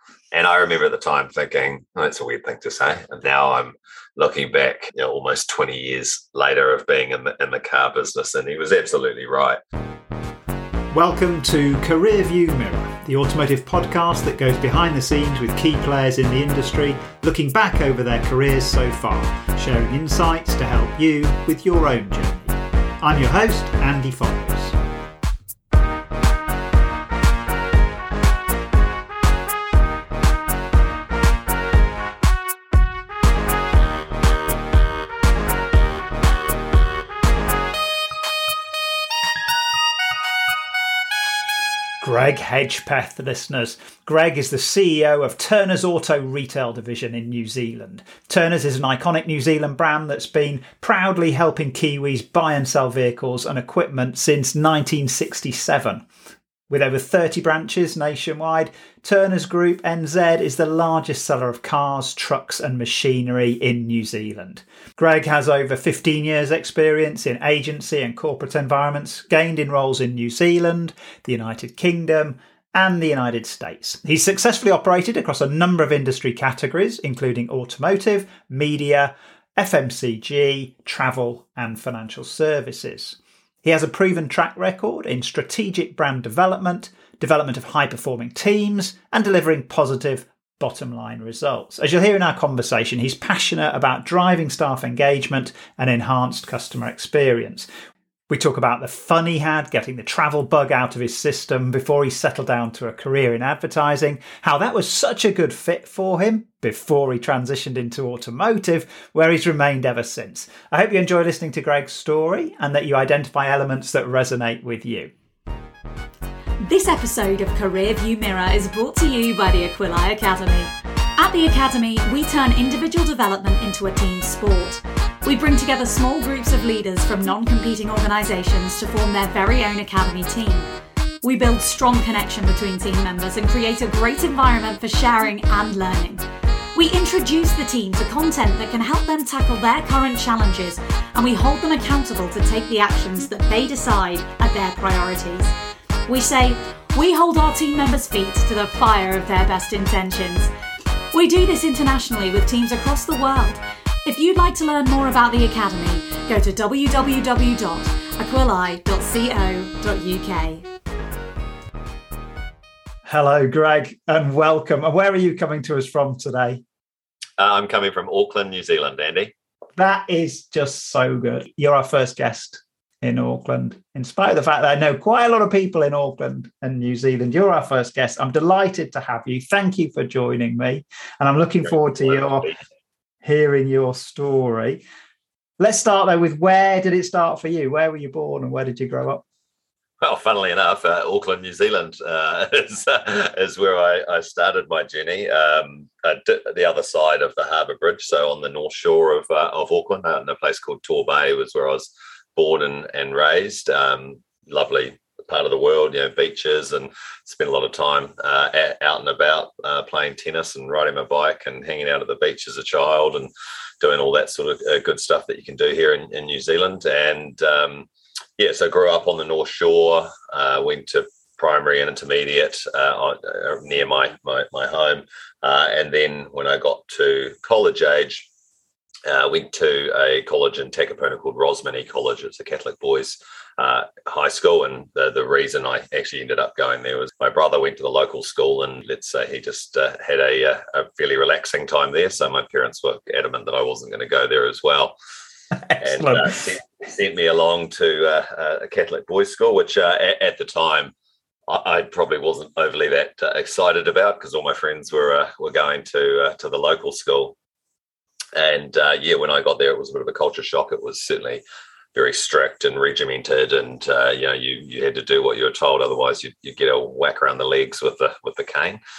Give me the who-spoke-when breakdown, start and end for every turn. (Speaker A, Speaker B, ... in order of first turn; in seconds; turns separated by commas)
Speaker A: 0.3-9.6, Speaker B: 10.9-24.8, Speaker B: 42.0-56.0, Speaker B: 56.7-97.7, Speaker B: 98.3-115.1, Speaker C: 116.6-130.7, Speaker C: 131.2-136.2, Speaker C: 136.8-145.5, Speaker C: 146.1-150.5, Speaker C: 151.1-160.7, Speaker B: 163.1-166.6, Speaker A: 167.4-169.3, Speaker B: 169.8-182.5, Speaker A: 181.8-182.6, Speaker B: 183.2-184.8, Speaker B: 185.6-189.2, Speaker A: 190.0-217.9, Speaker A: 218.4-228.3, Speaker A: 229.1-245.0, Speaker B: 245.7-246.3, Speaker A: 245.8-250.9, Speaker A: 251.5-257.4, Speaker A: 258.4-261.4, Speaker A: 261.9-268.8